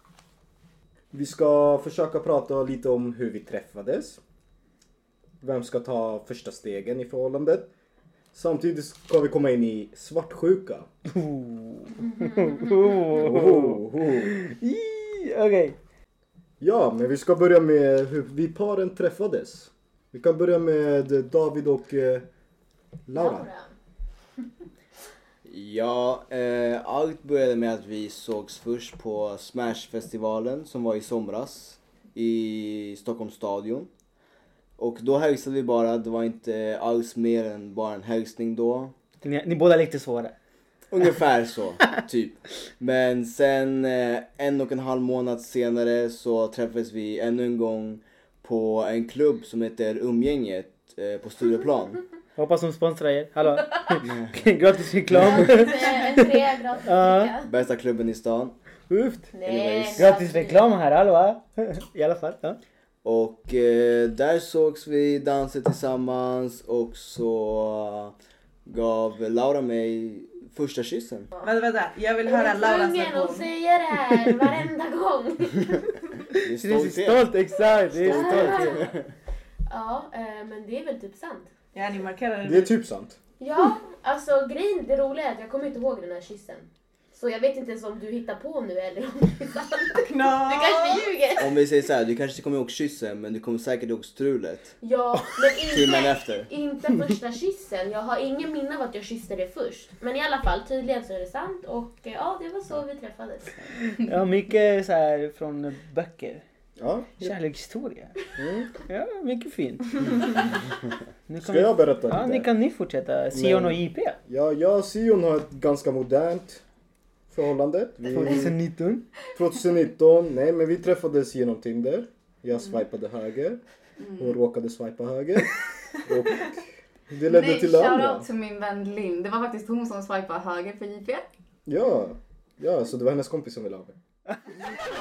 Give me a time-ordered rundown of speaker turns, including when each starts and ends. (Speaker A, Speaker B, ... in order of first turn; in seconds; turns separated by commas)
Speaker A: 1.1-4.2, Speaker A: 5.4-7.7, Speaker A: 8.3-10.9, Speaker B: 11.1-15.8, Speaker C: 12.0-13.2, Speaker A: 13.2-14.3, Speaker A: 16.6-22.3, Speaker A: 23.1-23.5, Speaker C: 23.1-23.7, Speaker D: 25.4-33.9, Speaker D: 34.8-38.9, Speaker B: 39.2-40.4, Speaker D: 40.9-52.0, Speaker B: 52.4-57.3, Speaker D: 54.0-54.3, Speaker D: 55.2-55.4, Speaker C: 55.2-57.5, Speaker D: 57.4-58.5, Speaker B: 58.9-59.3, Speaker C: 59.3-60.6, Speaker D: 59.4-60.2, Speaker B: 60.0-62.6, Speaker D: 63.0-68.2, Speaker D: 68.7-71.3, Speaker E: 71.4-73.5, Speaker C: 72.2-75.9, Speaker D: 76.4-79.1, Speaker B: 76.6-78.9, Speaker C: 78.0-79.0, Speaker C: 79.7-81.5, Speaker E: 81.7-82.7, Speaker A: 82.4-83.2, Speaker C: 83.4-91.7, Speaker E: 90.0-91.1, Speaker D: 91.4-94.8, Speaker C: 94.8-103.7, Speaker D: 95.7-96.5, Speaker B: 103.9-106.4, Speaker A: 106.8-107.4, Speaker B: 107.2-110.3, Speaker A: 108.4-108.7, Speaker B: 111.3-114.2, Speaker A: 111.4-112.5, Speaker A: 113.3-116.6, Speaker A: 117.3-118.6, Speaker B: 118.1-119.1, Speaker A: 119.3-123.6, Speaker F: 124.0-124.3, Speaker A: 124.2-128.3, Speaker F: 127.3-131.3, Speaker A: 131.7-134.0